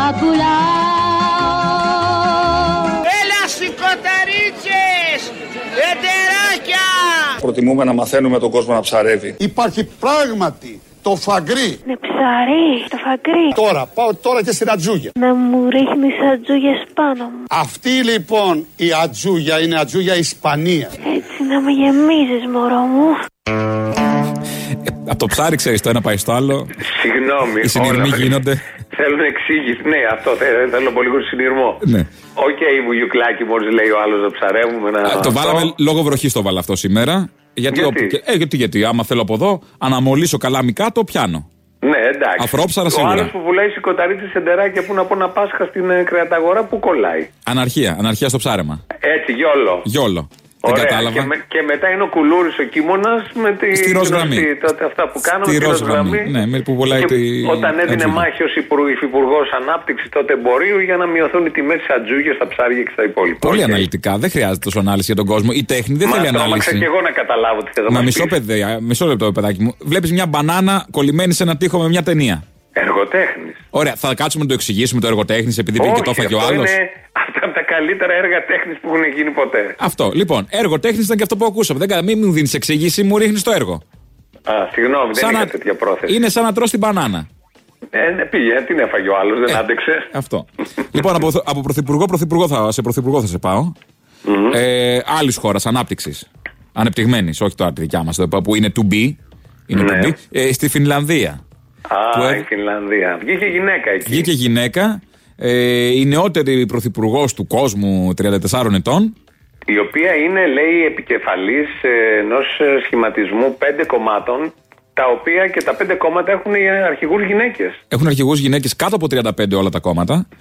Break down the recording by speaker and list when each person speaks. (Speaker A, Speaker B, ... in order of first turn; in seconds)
Speaker A: 3.1-5.2, 5.8-6.8
Speaker B: 7.4-9.4
Speaker C: 9.4-11.8, 13.6-15.1, 17.6-20.9
Speaker D: 11.9-13.5, 15.2-17.4, 21.0-23.2
Speaker E: 24.9-26.7, 27.6-28.6, 35.1-41.5, 42.4-43.3, 47.5-48.8, 49.9-51.3, 53.7-54.5, 55.4-58.2, 63.4-66.9, 67.9-72.4, 73.7-76.7, 79.8-83.8, 85.1-85.5, 86.1-87.3, 90.1-93.8, 94.5-99.2, 99.7-101.4, 102.1-102.4, 104.1-109.1, 117.9-120.2
Speaker F: 26.8-28.3, 28.9-31.8, 32.4-35.7, 37.7-38.1, 41.8-47.3, 49.0-49.9, 50.6-56.3, 56.9-63.9, 66.0-68.3, 72.8-73.6, 75.8-79.7, 84.5-86.1, 87.9-90.1, 94.2-94.6, 99.7-100.1, 101.9-104.3, 109.7-117.8